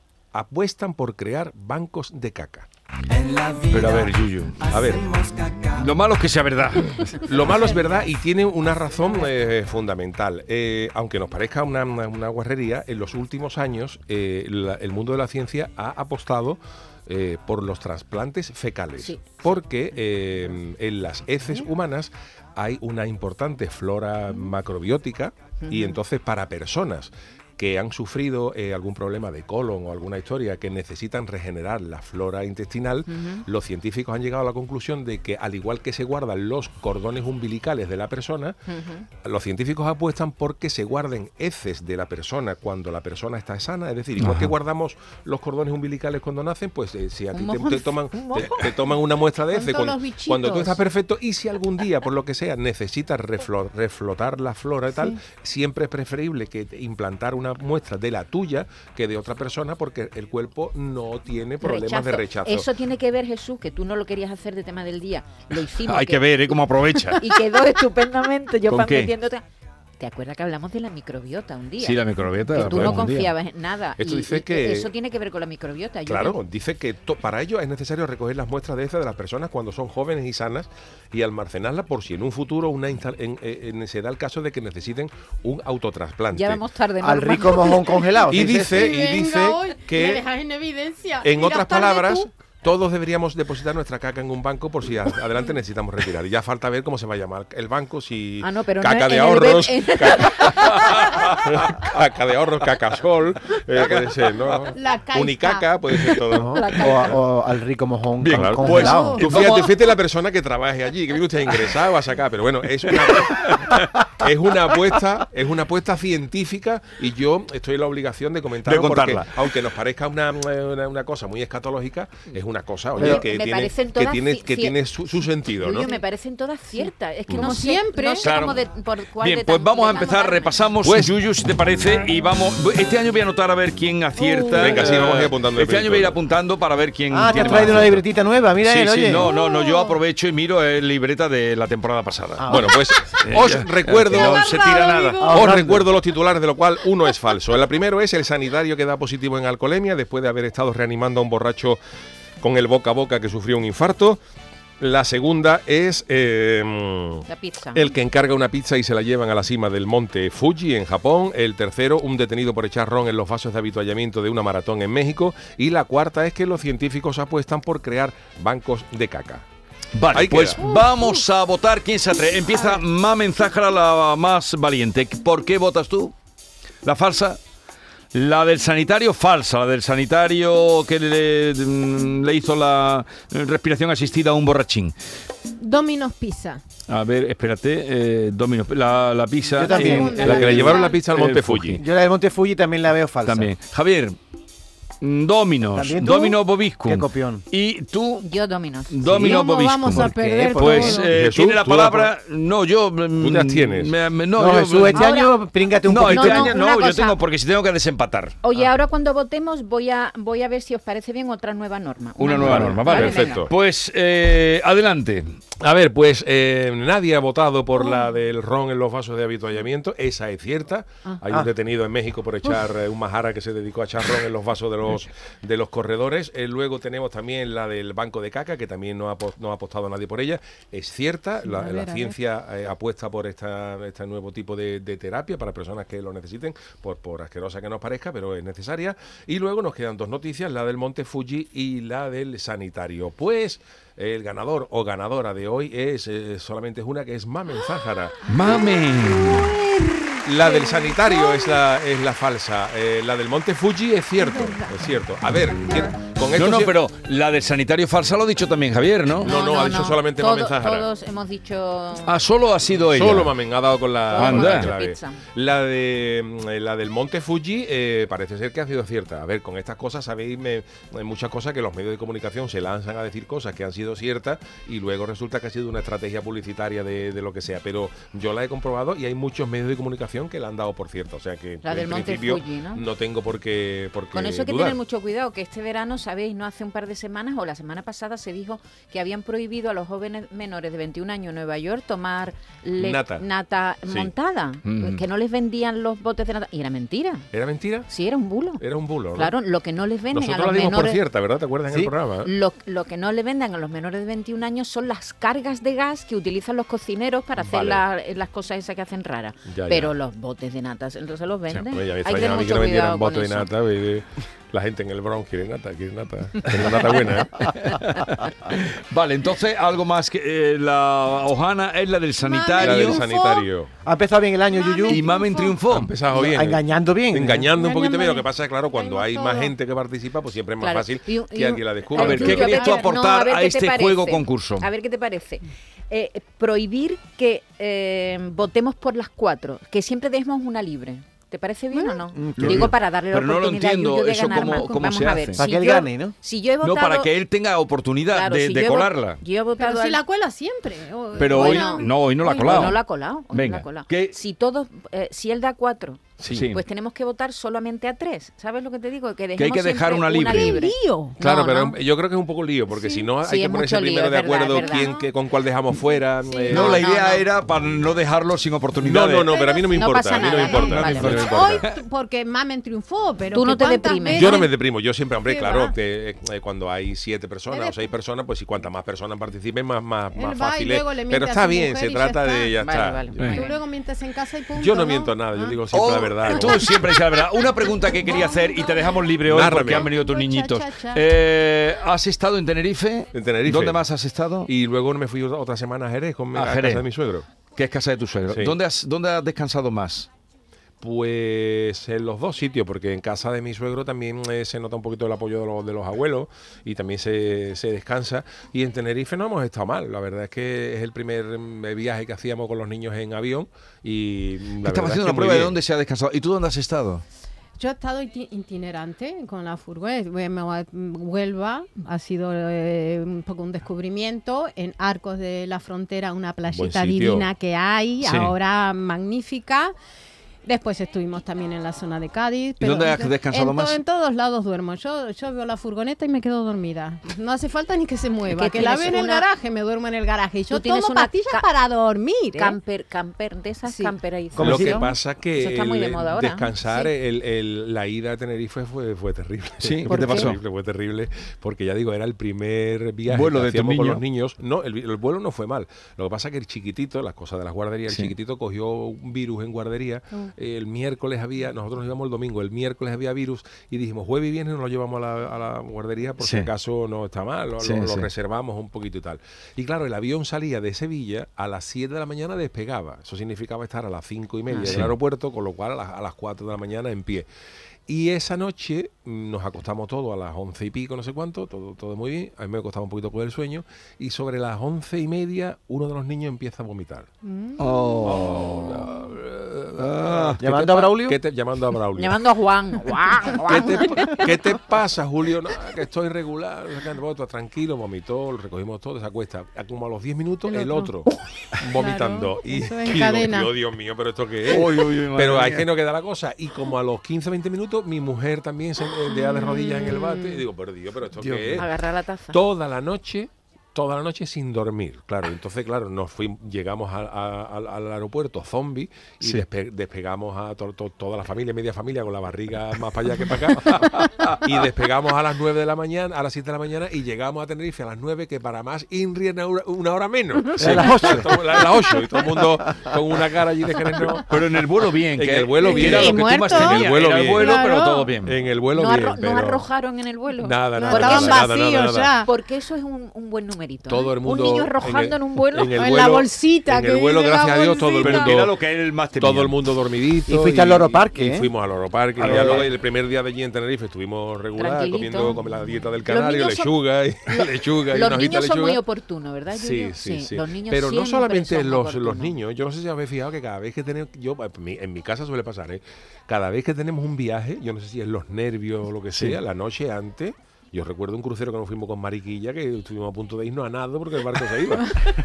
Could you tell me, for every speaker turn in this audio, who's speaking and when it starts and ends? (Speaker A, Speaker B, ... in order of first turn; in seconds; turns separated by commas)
Speaker A: 0.3-2.7, Speaker B: 3.5-4.7, Speaker A: 4.7-5.1, Speaker B: 5.7-7.2, Speaker A: 7.2-38.6, Speaker C: 19.0-19.6, Speaker C: 25.6-25.9, Speaker C: 33.1-33.4, Speaker C: 38.7-39.1, Speaker A: 39.2-62.7, Speaker B: 44.2-44.5, Speaker C: 47.3-48.8, Speaker D: 49.5-50.8, Speaker C: 61.6-66.4, Speaker B: 65.8-67.4, Speaker C: 67.2-69.4, Speaker B: 68.7-69.1, Speaker C: 70.0-72.0, Speaker B: 71.8-73.3, Speaker A: 72.5-73.0, Speaker C: 72.5-76.4, Speaker A: 74.0-74.9, Speaker A: 76.0-86.6, Speaker C: 86.3-88.1, Speaker E: 87.0-88.9, Speaker A: 88.3-90.3, Speaker D: 88.8-92.3, Speaker A: 91.2-107.0, Speaker C: 98.4-101.1, Speaker B: 101.0-101.8, Speaker B: 103.8-104.5, Speaker D: 104.8-105.7, Speaker E: 106.4-109.2, Speaker C: 106.5-107.2, Speaker B: 108.2-109.9, Speaker A: 108.3-125.9, Speaker D: 108.8-109.6, Speaker B: 112.9-113.9, Speaker B: 118.6-119.4, Speaker C: 122.9-130.7, Speaker E: 123.0-123.2, Speaker D: 126.8-128.3, Speaker A: 127.3-127.5, Speaker B: 128.2-128.6, Speaker B: 129.2-138.1, Speaker A: 130.8-131.1, Speaker D: 134.2-134.7, Speaker A: 134.5-136.2, Speaker E: 137.1-139.3, Speaker B: 138.6-145.3, Speaker D: 139.3-140.0, Speaker E: 142.4-142.7, Speaker A: 142.5-144.5, Speaker D: 144.2-145.3, Speaker E: 145.2-145.9, Speaker A: 145.2-151.8, Speaker A: 152.4-154.2, Speaker A: 154.8-169.4, Speaker C: 157.3-157.9, Speaker B: 169.9-176.1, Speaker A: 170.1-170.6, Speaker D: 170.7-171.1, Speaker B: 176.8-177.4, Speaker B: 178.1-184.9, Speaker D: 185.6-186.6, Speaker B: 186.9-191.8, Speaker E: 189.5-190.8, Speaker D: 189.7-191.0, Speaker A: 190.1-191.8, Speaker E: 191.8-193.5, Speaker B: 193.2-194.2, Speaker B: 195.0-198.2, Speaker E: 195.7-197.4, Speaker C: 198.2-198.9, Speaker B: 198.9-205.2, Speaker A: 199.1-199.4, Speaker D: 199.2-201.1, Speaker E: 200.1-201.0, Speaker A: 201.1-202.1, Speaker A: 203.2-204.0, Speaker E: 204.3-206.7, Speaker C: 204.9-205.4, Speaker B: 205.8-208.3, Speaker C: 206.0-207.2, Speaker C: 208.4-213.4, Speaker B: 212.2-215.3, Speaker A: 212.4-213.5, Speaker A: 215.6-248.5, Speaker D: 231.5-232.2, Speaker B: 248.2-249.5, Speaker D: 249.3-251.5, Speaker A: 250.2-256.7, Speaker D: 254.2-254.8, Speaker B: 256.3-259.3, Speaker A: 259.2-260.9, Speaker C: 259.2-262.1, Speaker B: 262.1-263.3, Speaker A: 262.9-284.8, Speaker C: 264.1-265.2, Speaker B: 264.1-264.7, Speaker C: 281.6-282.8, Speaker C: 284.1-297.2, Speaker A: 292.8-293.2, Speaker B: 294.6-295.0, Speaker A: 297.3-297.9, Speaker C: 297.9-301.0, Speaker A: 298.6-299.3, Speaker A: 300.1-302.3, Speaker C: 302.2-313.5, Speaker A: 307.4-307.9, Speaker A: 309.5-309.9, Speaker A: 311.5-317.5, Speaker B: 317.4-323.0, Speaker D: 322.2-323.4, Speaker A: 322.6-323.7, Speaker E: 323.8-325.1, Speaker D: 324.5-325.6, Speaker B: 324.8-325.9, Speaker A: 325.7-332.5, Speaker E: 326.1-327.5, Speaker D: 327.6-329.5, Speaker C: 330.6-347.1, Speaker B: 331.9-334.7, Speaker D: 332.1-332.9, Speaker D: 341.7-342.0, Speaker E: 342.1-342.7, Speaker B: 342.4-345.4, Speaker D: 344.3-344.9, Speaker E: 345.3-346.1, Speaker B: 346.6-349.2, Speaker C: 348.1-350.0, Speaker D: 349.6-352.7, Speaker B: 351.1-354.1, Speaker C: 351.3-361.8, Speaker A: 356.2-356.5, Speaker B: 356.3-356.6, Speaker B: 359.4-360.6, Speaker D: 360.3-361.2, Speaker A: 361.2-366.8, Speaker D: 362.7-363.1, Speaker C: 363.2-364.9, Speaker D: 364.5-365.1, Speaker D: 366.2-366.8, Speaker B: 366.5-369.3, Speaker C: 366.5-367.2, Speaker A: 368.8-371.6, Speaker D: 369.3-374.5, Speaker C: 369.7-371.4, Speaker B: 370.8-371.2, Speaker C: 373.3-374.4, Speaker A: 374.1-383.0, Speaker D: 375.2-375.8, Speaker D: 377.5-377.9, Speaker D: 380.1-382.5, Speaker C: 382.6-383.6, Speaker D: 383.2-385.6, Speaker A: 384.6-386.7, Speaker B: 385.7-394.5, Speaker D: 388.2-389.0, Speaker A: 389.2-389.9, Speaker D: 389.7-391.0, Speaker A: 393.1-393.8, Speaker A: 394.4-397.2, Speaker B: 396.3-396.8, Speaker B: 397.5-400.1, Speaker A: 398.3-398.6, Speaker A: 400.8-415.6, Speaker B: 414.6-417.0, Speaker D: 417.6-429.7, Speaker A: 426.5-427.3, Speaker B: 428.0-428.3, Speaker D: 430.4-442.6, Speaker B: 432.6-433.8, Speaker C: 438.3-439.3, Speaker C: 440.5-441.5, Speaker C: 442.3-446.9, Speaker D: 443.6-443.9, Speaker E: 444.3-444.8, Speaker A: 444.4-477.3, Speaker B: 449.6-450.4, Speaker C: 449.9-450.3, Speaker B: 453.1-454.0, Speaker B: 457.9-458.1, Speaker B: 466.2-466.5, Speaker B: 467.6-468.1, Speaker C: 474.5-474.8, Speaker B: 474.6-474.9, Speaker A: 477.9-487.1, Speaker B: 487.6-489.0, Speaker A: 488.0-492.2, Speaker B: 489.7-490.4, Speaker E: 490.4-491.2, Speaker C: 491.9-494.3, Speaker A: 493.3-511.7, Speaker D: 500.5-500.9, Speaker D: 501.8-503.5, Speaker B: 504.4-505.7, Speaker E: 511.2-511.6, Speaker C: 511.5-512.4, Speaker A: 512.3-534.4, Speaker B: 523.7-524.4, Speaker B: 530.6-531.2, Speaker E: 530.6-531.5, Speaker B: 534.3-538.3, Speaker A: 535.1-537.6, Speaker D: 535.6-536.7, Speaker D: 537.3-538.1, Speaker A: 538.2-539.6, Speaker C: 538.7-541.5, Speaker A: 540.4-542.1, Speaker D: 540.8-542.3, Speaker C: 542.2-545.7, Speaker A: 543.9-548.5, Speaker D: 545.8-548.2, Speaker B: 548.0-549.6, Speaker A: 549.2-558.8, Speaker E: 550.2-551.5, Speaker E: 552.1-552.7, Speaker C: 554.5-555.4, Speaker C: 556.0-556.7, Speaker C: 557.3-562.4, Speaker A: 559.5-574.9, Speaker B: 569.1-569.4